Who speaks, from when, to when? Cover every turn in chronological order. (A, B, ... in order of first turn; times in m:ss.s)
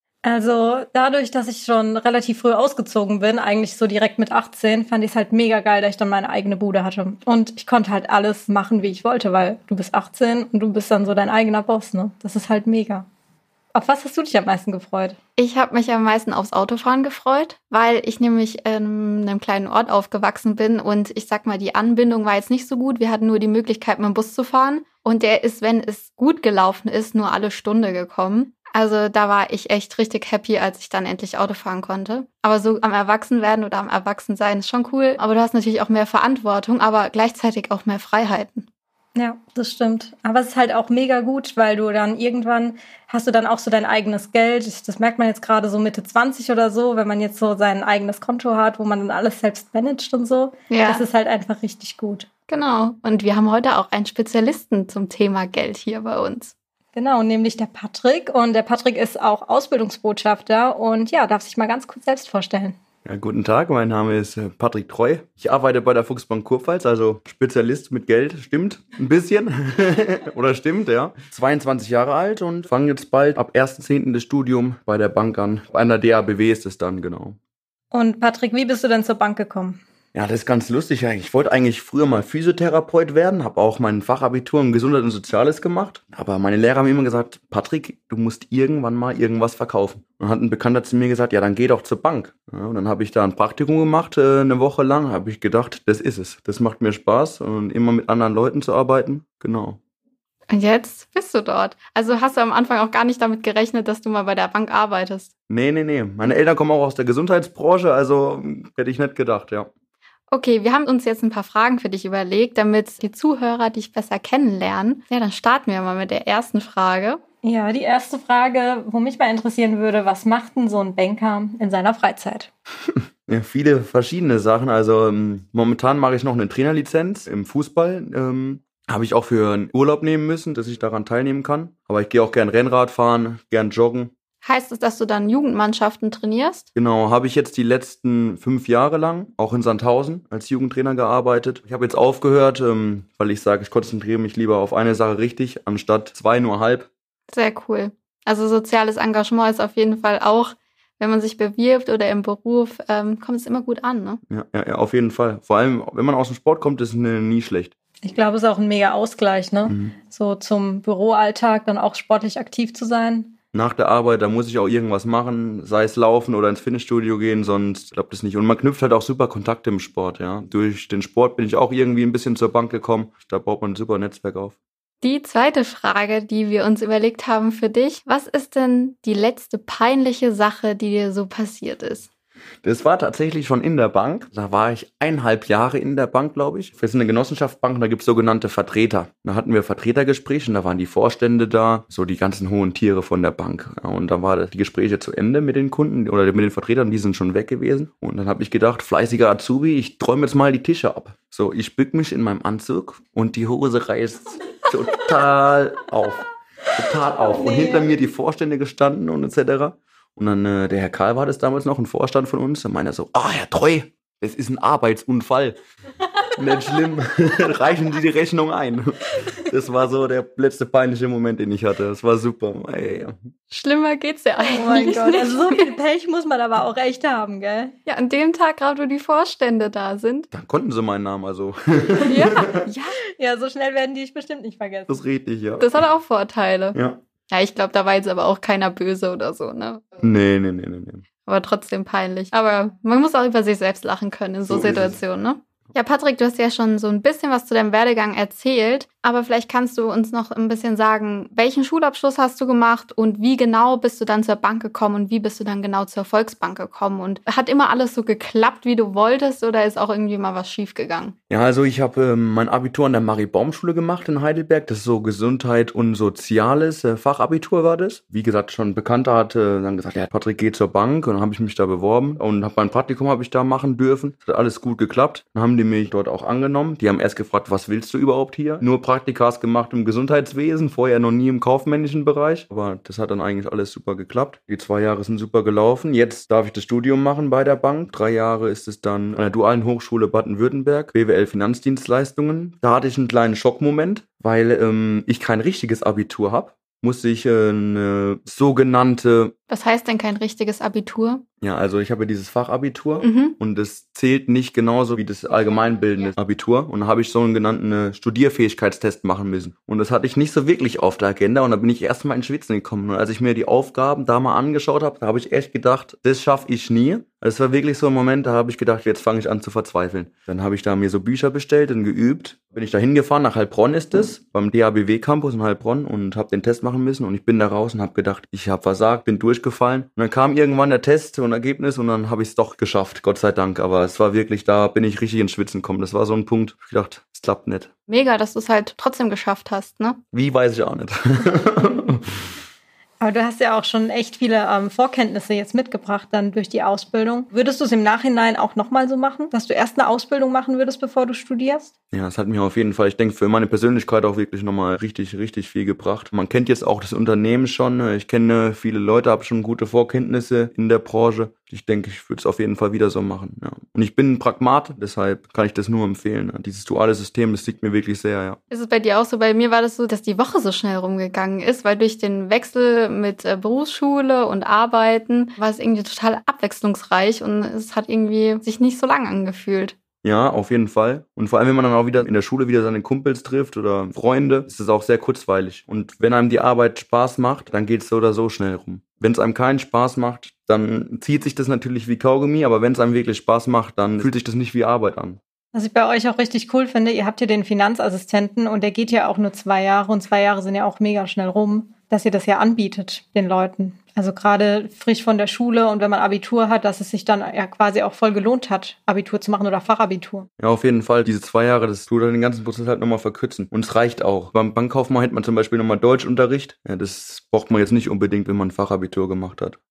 0:00.2-0:13.0 A
0:13.7-0:15.2 A
0:15.4-0:38.7 B
0:39.2-0:52.2 A
0:50.7-0:51.0 B
0:52.5-0:56.5 B
0:56.9-1:02.8 A
1:03.0-1:17.4 C
1:17.9-1:19.8 A
1:20.1-1:39.8 C
1:40.5-1:45.3 B
1:45.5-1:49.7 C
1:50.3-1:57.2 B
1:57.4-2:02.5 A
2:02.9-2:14.1 C
2:14.4-2:16.7 B
2:16.8-2:26.9 C
2:27.3-2:34.2 B
2:34.3-2:37.7 C
2:38.0-2:43.3 A
2:39.7-2:40.0 C
2:43.5-2:54.6 C
2:55.0-3:02.1 B
3:02.6-3:26.2 C
3:26.8-3:35.6 C
3:27.2-3:27.9 A
3:36.4-3:43.3 C
3:43.5-3:45.7 B
3:44.4-3:47.7 A
3:47.9-3:50.3 B
3:50.3-3:52.5 C
3:52.0-3:53.0 B
3:53.2-3:54.9 A
3:54.9-3:55.6 C
3:55.6-3:56.8 B
3:57.3-3:59.8 B
4:00.0-4:01.0 C
4:01.2-4:21.2 B
4:04.4-4:05.0 C
4:21.3-4:59.3 C
4:59.5-5:01.2 B
5:01.4-5:37.7 C
5:03.0-5:03.4 B
5:37.9-5:40.0 B
5:40.1-5:42.0 C
5:43.0-5:51.7 A
5:51.9-6:08.4 C
6:08.5-6:19.8 B
6:20.0-6:35.2 C
6:35.5-6:50.3 A
6:50.4-6:59.6 C